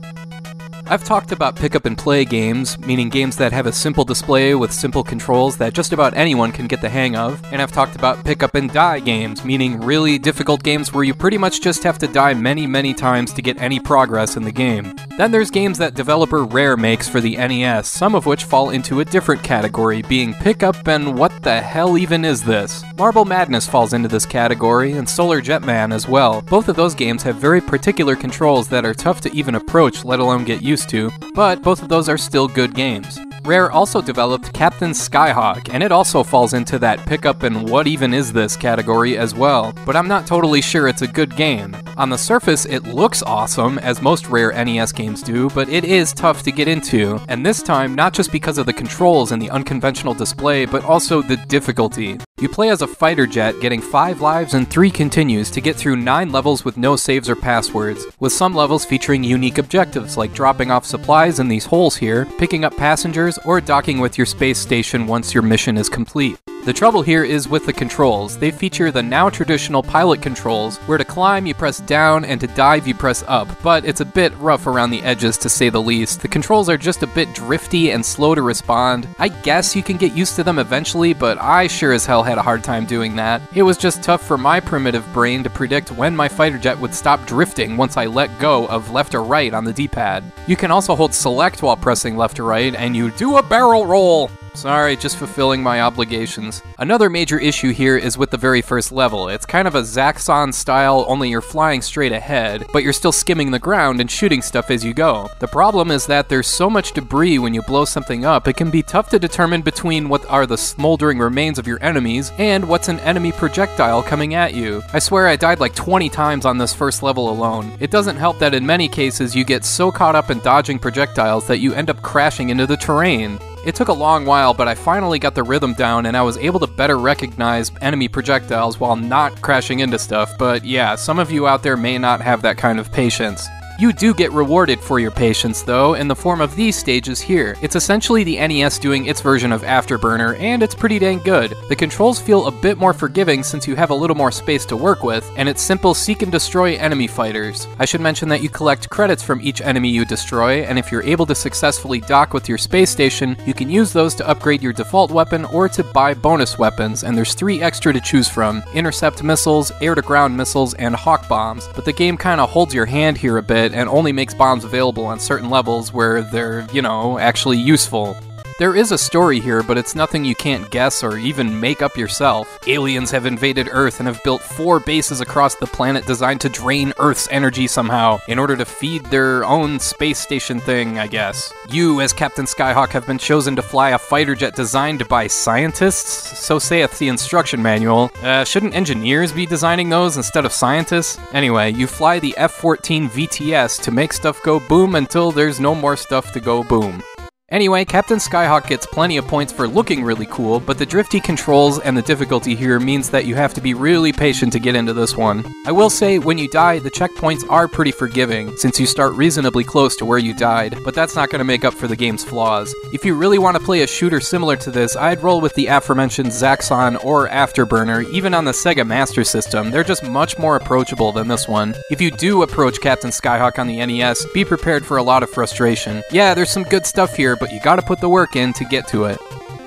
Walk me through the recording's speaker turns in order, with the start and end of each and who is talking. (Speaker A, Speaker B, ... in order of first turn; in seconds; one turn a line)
Speaker A: 0.9-229.2